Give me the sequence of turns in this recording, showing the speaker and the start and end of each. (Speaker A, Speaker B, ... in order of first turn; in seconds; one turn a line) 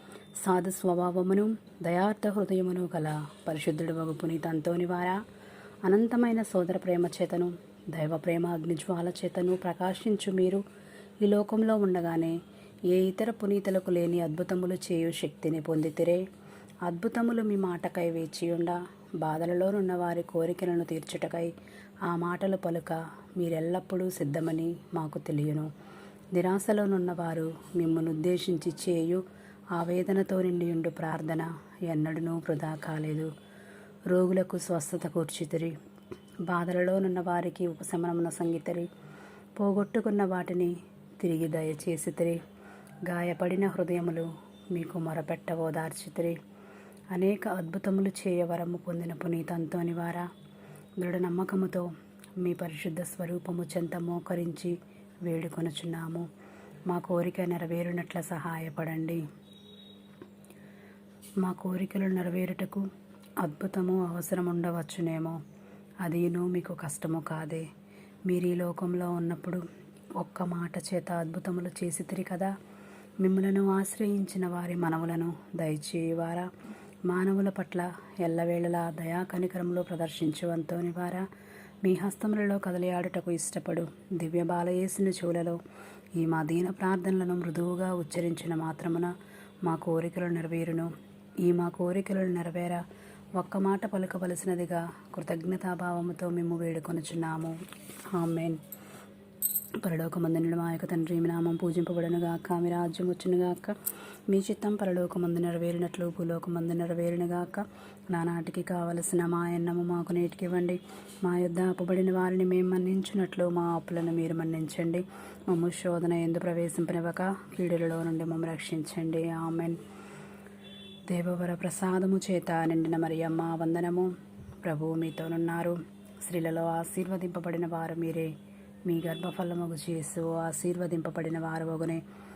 Speaker A: 0.4-5.2
Speaker A: 5.8-10.6
Speaker A: 11.2-12.4
Speaker A: 12.9-16.2
Speaker A: 16.9-21.5
Speaker A: 22.1-25.7
Speaker A: 26.3-29.2
Speaker A: 29.8-33.3
Speaker A: 34.1-35.8
Speaker A: 36.5-38.9
Speaker A: 39.6-42.4
Speaker A: 43.1-46.4
Speaker A: 47.1-50.3
Speaker A: 51.0-56.3
Speaker A: 56.9-59.2
Speaker A: 61.4-62.9
Speaker A: 63.4-65.4
Speaker A: 66.0-67.7
Speaker A: 68.3-69.7
Speaker A: 70.2-72.5
Speaker A: 73.2-76.5
Speaker A: 77.1-81.3
Speaker A: 81.8-85.6
Speaker A: 86.2-89.1
Speaker A: 89.6-92.8
Speaker A: 93.4-97.6
Speaker A: 98.1-98.6
Speaker A: 99.8-103.8
Speaker A: 104.3-119.8
Speaker A: 121.1-128.3
Speaker A: 128.8-132.0